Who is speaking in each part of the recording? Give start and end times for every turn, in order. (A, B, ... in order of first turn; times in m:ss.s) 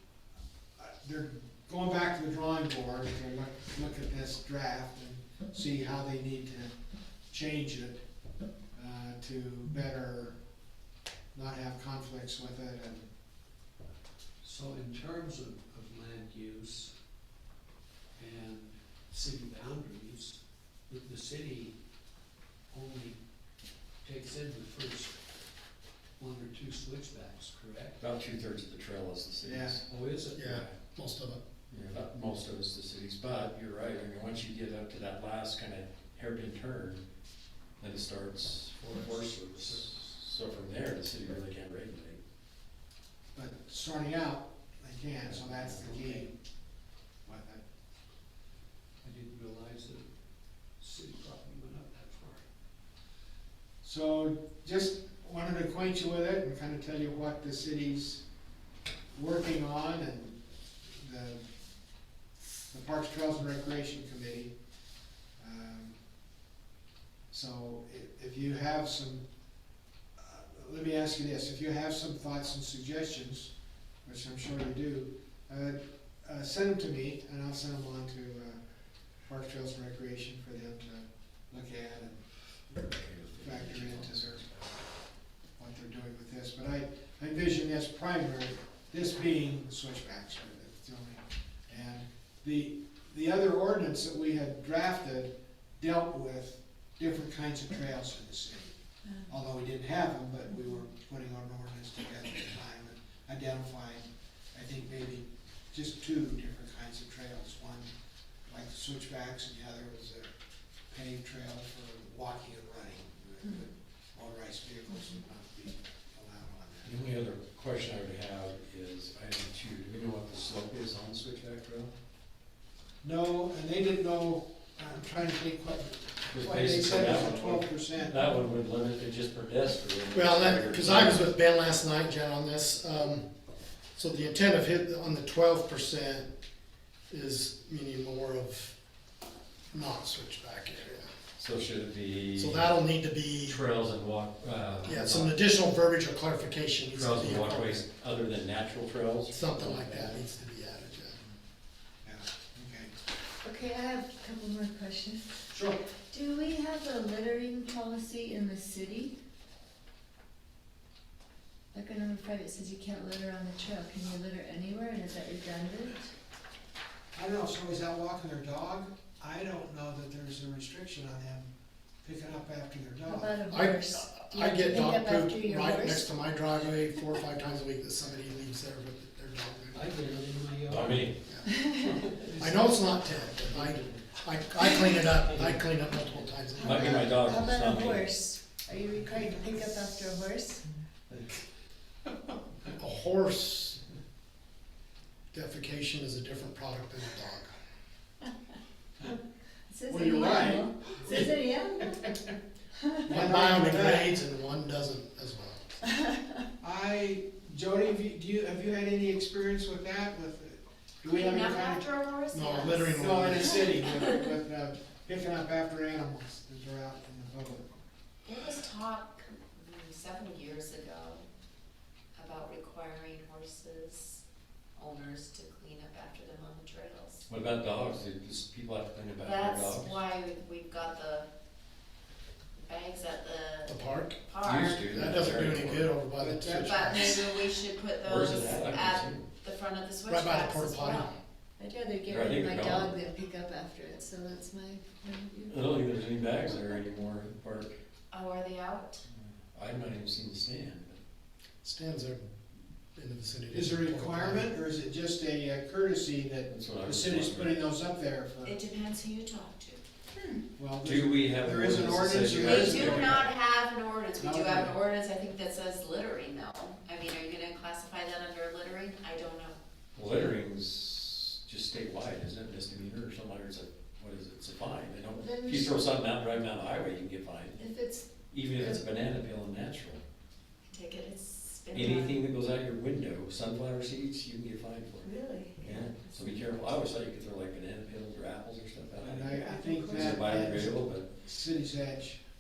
0:00.8-0:06.7 A
0:07.3-0:08.0 A
0:08.7-0:10.4 A
0:11.3-0:13.1 A
0:14.4-0:16.9 B
0:18.2-0:20.4 B
0:20.9-0:21.8 B
0:22.7-0:23.2 B
0:24.0-0:25.2 B
0:26.2-0:28.0 B
0:28.0-0:29.8 C
0:29.4-0:29.8 A
0:29.9-0:30.7 B
0:30.4-0:31.4 D
0:31.7-0:37.0 C
0:37.8-0:42.2 C
0:38.8-0:39.9 B
0:43.4-0:46.3 A
0:45.3-0:46.0 C
0:45.8-0:46.2 B
0:47.2-0:47.6 A
0:49.0-0:50.1 B
0:50.8-0:52.4 B
0:53.8-0:58.2 A
0:59.1-1:00.4 A
1:00.9-1:01.4 A
1:02.7-1:04.5 A
1:05.4-1:06.0 A
1:07.3-1:09.3 A
1:10.2-1:13.5 A
1:14.0-1:18.6 A
1:19.2-1:22.9 A
1:22.7-1:24.7 C
1:23.4-1:24.5 A
1:25.6-1:38.8 A
1:39.3-1:47.9 A
1:48.5-1:50.3 A
1:50.9-1:57.0 A
1:56.8-2:01.9 C
2:03.0-2:08.2 A
2:06.3-2:11.3 C
2:10.1-2:13.3 D
2:14.0-2:16.3 D
2:17.1-2:18.8 D
2:19.7-2:21.1 D
2:21.4-2:22.7 C
2:22.4-2:23.6 D
2:23.4-2:25.4 C
2:24.8-2:27.8 D
2:27.0-2:30.2 C
2:29.3-2:31.2 D
2:32.0-2:32.9 A
2:33.4-2:35.3 E
2:35.5-2:35.8 A
2:36.1-2:39.2 E
2:41.7-2:46.1 E
2:47.1-2:51.5 A
2:52.0-2:53.4 A
2:53.1-2:56.0 E
2:53.5-2:59.9 D
2:59.7-3:01.2 B
3:00.7-3:01.2 C
3:01.3-3:01.7 D
3:01.5-3:01.9 E
3:01.8-3:04.7 B
3:02.3-3:07.0 D
3:06.6-3:08.1 C
3:06.7-3:10.6 E
3:12.8-3:13.8 D
3:15.3-3:17.5 D
3:19.7-3:22.0 E
3:19.9-3:21.3 A
3:23.1-3:24.2 A
3:23.1-3:25.8 D
3:26.6-3:31.8 A
3:31.1-3:33.0 F
3:32.3-3:33.7 D
3:32.7-3:37.7 A
3:38.3-3:41.2 F
3:42.2-3:44.2 F
3:44.8-3:47.2 F
3:47.3-3:50.0 C
3:49.2-3:51.3 F
3:52.6-3:53.8 F
3:53.7-3:54.2 D
3:54.3-3:54.9 F
3:54.4-3:55.9 C
3:54.8-3:57.2 D
3:56.2-3:57.0 A
3:56.6-4:01.2 F
3:58.0-3:59.3 C
4:00.1-4:01.1 D
4:01.6-4:05.5 E
4:02.1-4:02.9 C
4:05.5-4:07.8 C
4:08.1-4:09.0 F
4:09.5-4:11.0 C
4:11.6-4:12.3 D
4:13.0-4:14.5 D
4:13.5-4:18.6 A
4:16.5-4:17.6 C
4:18.4-4:19.8 F
4:20.2-4:20.4 E
4:20.6-4:23.3 A
4:20.8-4:23.2 C
4:22.4-4:29.6 F
4:24.2-4:24.7 A
4:30.0-4:37.6 C
4:35.2-4:35.8 E
4:37.6-4:38.1 E
4:38.3-4:40.0 C
4:40.7-4:42.2 F
4:41.7-4:49.3 C
4:45.0-4:46.1 E
4:49.0-4:52.2 A
4:49.2-4:50.0 E
4:49.9-4:51.1 C